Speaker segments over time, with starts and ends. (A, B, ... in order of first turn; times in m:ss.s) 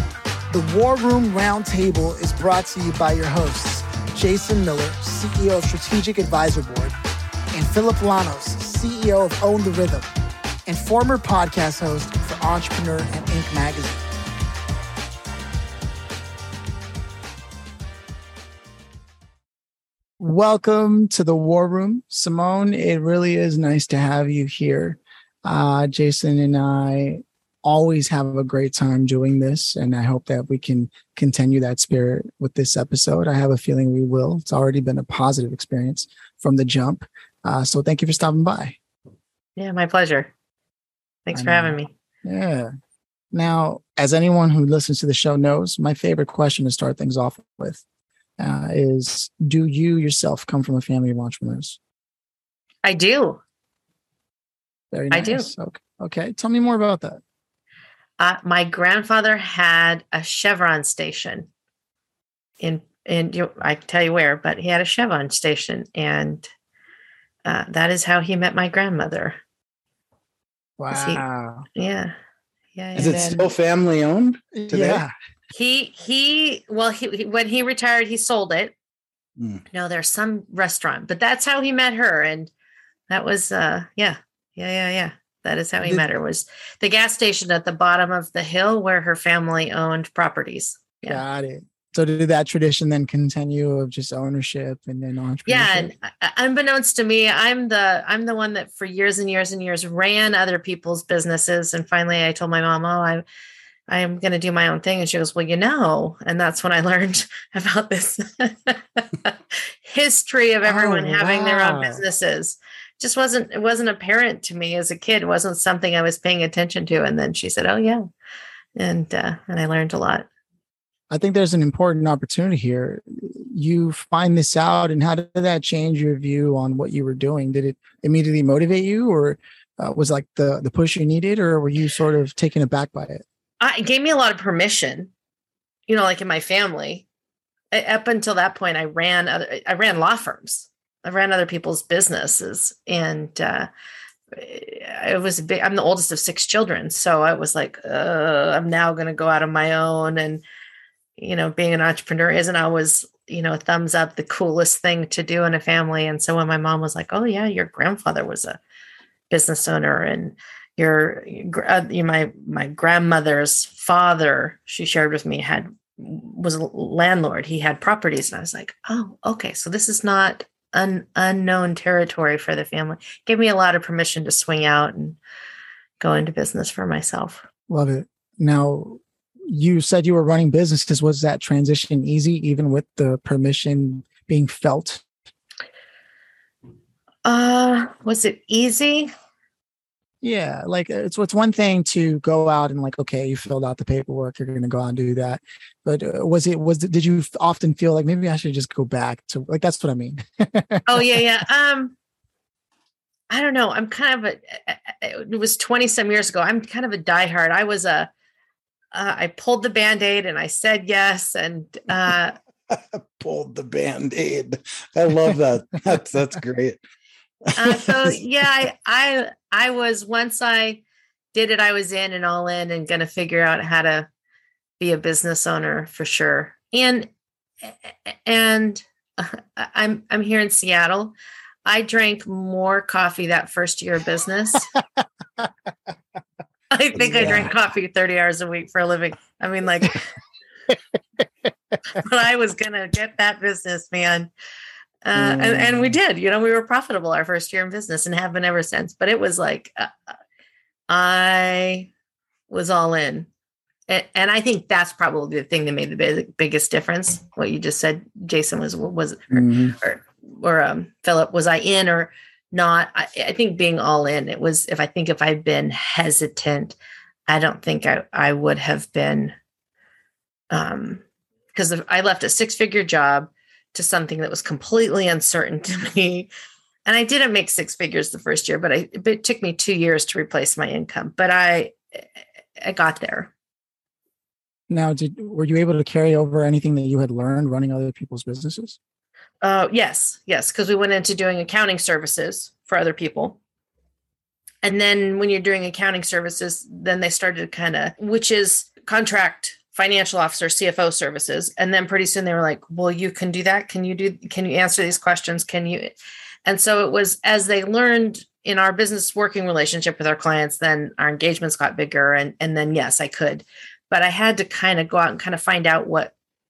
0:00.5-0:07.0 A
0:07.5-0:10.1 A
0:10.7-0:14.0 A
0:20.2-0:38.8 A
0:39.6-0:40.3 B
0:41.3-0:41.9 B
0:41.3-0:42.7 A
0:43.3-0:47.8 A
0:48.4-0:51.8 A
0:52.8-0:53.4 B
0:54.9-0:57.2 A
0:55.1-0:55.5 B
0:58.2-1:01.5 B
1:02.6-1:06.5 B
1:07.4-1:09.4 B
1:10.8-1:11.7 A
1:10.9-1:11.2 B
1:11.8-1:12.2 B
1:12.8-1:13.5 B
1:13.0-1:15.0 C
1:13.0-1:13.4 A
1:14.5-1:15.1 A
1:15.5-1:18.8 B
1:19.4-1:19.6 C
1:19.7-1:22.5 B
1:23.1-1:31.2 B
1:31.1-1:35.9 A
1:35.5-1:43.2 B
1:43.9-1:58.0 B
1:50.7-1:52.0 A
1:58.8-2:00.3 B
2:01.1-2:13.2 A
2:13.6-2:15.1 B
2:15.9-2:17.0 B
2:17.7-2:23.7 B
2:24.3-2:30.4 B
2:31.2-2:38.6 B
2:39.3-2:55.2 B
2:56.0-2:57.4 B
2:57.7-3:05.0 A
3:07.2-3:09.1 B
3:10.2-3:21.2 A
3:20.9-3:21.9 B
3:23.3-3:28.1 B
3:28.9-3:32.4 B
3:32.7-3:36.8 C
3:37.5-3:38.2 C
3:37.6-3:40.8 B
3:41.3-3:44.1 B
3:44.8-3:47.1 B
3:47.6-3:51.2 B
3:51.7-3:54.7 B
3:56.7-4:00.1 B
3:57.1-3:57.5 A
4:01.9-4:04.3 B
4:05.0-4:10.1 B
4:05.2-4:05.9 A
4:10.9-4:11.9 B
4:12.5-4:13.3 B
4:13.9-4:26.8 B
4:19.3-4:19.8 C
4:27.3-4:29.4 B
4:30.5-4:31.0 B
4:31.6-4:36.3 B
4:36.9-4:41.8 B
4:42.6-4:43.3 B
4:44.7-4:48.8 A
4:49.4-4:53.4 B
4:54.6-5:06.0 B
5:06.5-5:16.1 B